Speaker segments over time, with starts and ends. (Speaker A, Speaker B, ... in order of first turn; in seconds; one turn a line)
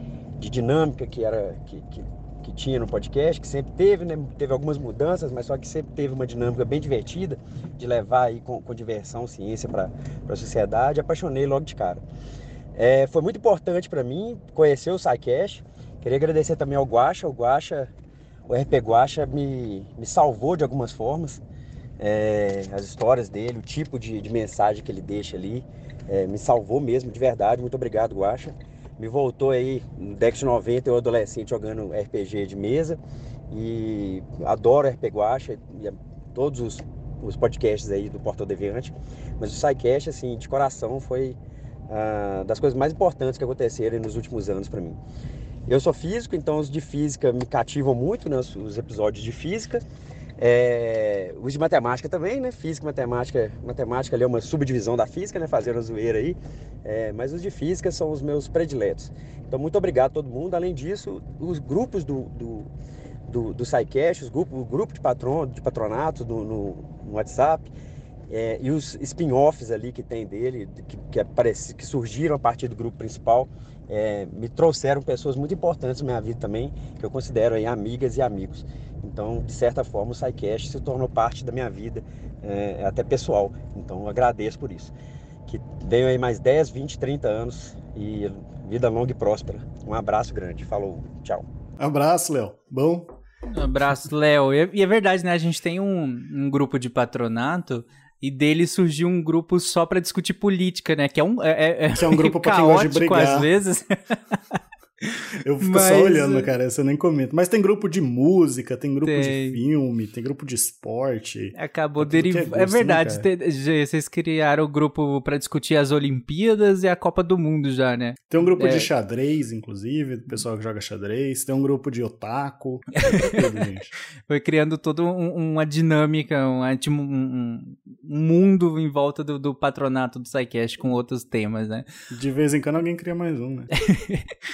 Speaker A: 0.4-12.0
Speaker A: 12.7-17.9
Speaker A: 18.5-21.4
Speaker A: 22.0-33.0
Speaker A: 33.5-41.4
Speaker A: 41.9-45.0
Speaker A: 45.7-49.8
Speaker A: 50.4-62.7
Speaker A: 63.2-67.7
Speaker A: 68.3-84.9
Speaker A: 85.5-91.5
Speaker B: 91.8-93.1
Speaker C: 93.5-104.4
Speaker B: 101.9-103.5
Speaker C: 105.0-106.5
Speaker B: 105.4-113.2
Speaker C: 109.0-109.6
Speaker C: 111.5-118.9
Speaker B: 118.3-123.9
Speaker C: 123.0-123.6
Speaker C: 124.2-131.9
Speaker B: 132.1-133.7
Speaker C: 133.8-134.3